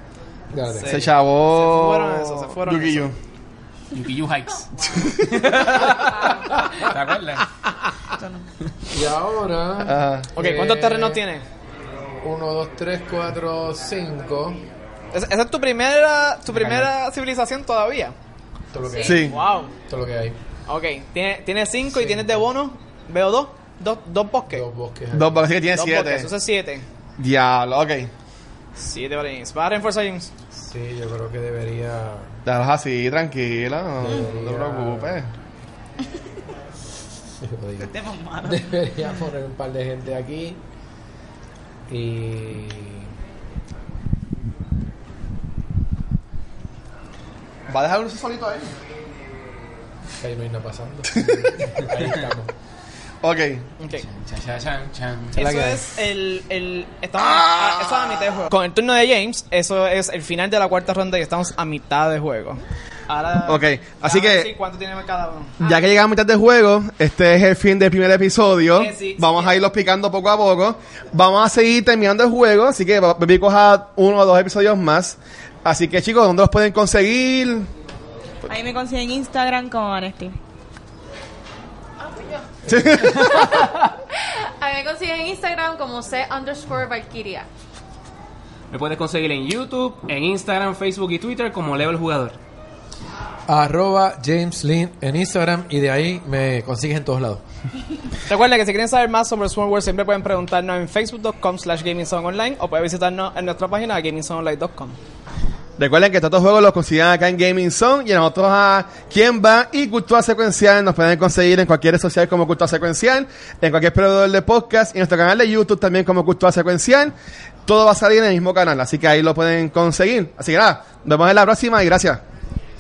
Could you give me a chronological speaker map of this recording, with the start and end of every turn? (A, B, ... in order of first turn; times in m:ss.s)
0:00.5-0:01.0 A
0:00.7-0:03.1 B
0:00.8-0:03.2 C
0:03.9-0:07.5 D
0:04.9-0:05.7 C
0:08.2-0:08.4 E
0:08.9-0:11.2 A
0:09.8-0:10.3 C
0:10.4-0:11.4 B
0:12.2-0:14.6 A
0:15.1-0:18.1 B
0:16.5-0:16.9 D
0:18.7-0:20.4 A
0:18.8-0:19.3 F
0:19.0-0:19.4 C
0:19.1-0:19.7 B
0:20.7-0:24.6 B
0:21.9-0:22.4 A
0:24.5-0:25.5 A
0:25.1-0:26.3 C
0:25.7-0:26.9 B
0:27.2-0:28.1 C
0:28.8-0:30.3 B
0:30.6-0:32.3 A
0:32.4-0:35.3 C
0:34.0-0:35.2 A
0:37.4-0:40.6 A
0:37.8-0:38.7 E
0:41.9-0:43.1 A
0:47.7-0:48.7 C
0:50.2-0:52.5 A
0:51.1-0:51.6 C
0:53.2-0:53.7 C
0:53.8-0:54.1 B
0:53.9-0:55.4 D
0:55.3-1:05.8 B
0:55.4-0:55.9 A
0:57.2-0:58.2 C
1:03.5-1:04.5 C
1:05.6-1:17.7 C
1:08.8-1:09.6 B
1:18.4-1:20.4 E
1:22.0-1:22.5 F
1:22.7-1:23.6 C
1:23.0-1:23.7 D
1:24.1-1:27.5 F
1:28.7-1:32.4 D
1:33.5-1:37.4 A
1:38.3-1:45.0 B
1:45.8-1:57.1 C
1:57.7-2:02.2 C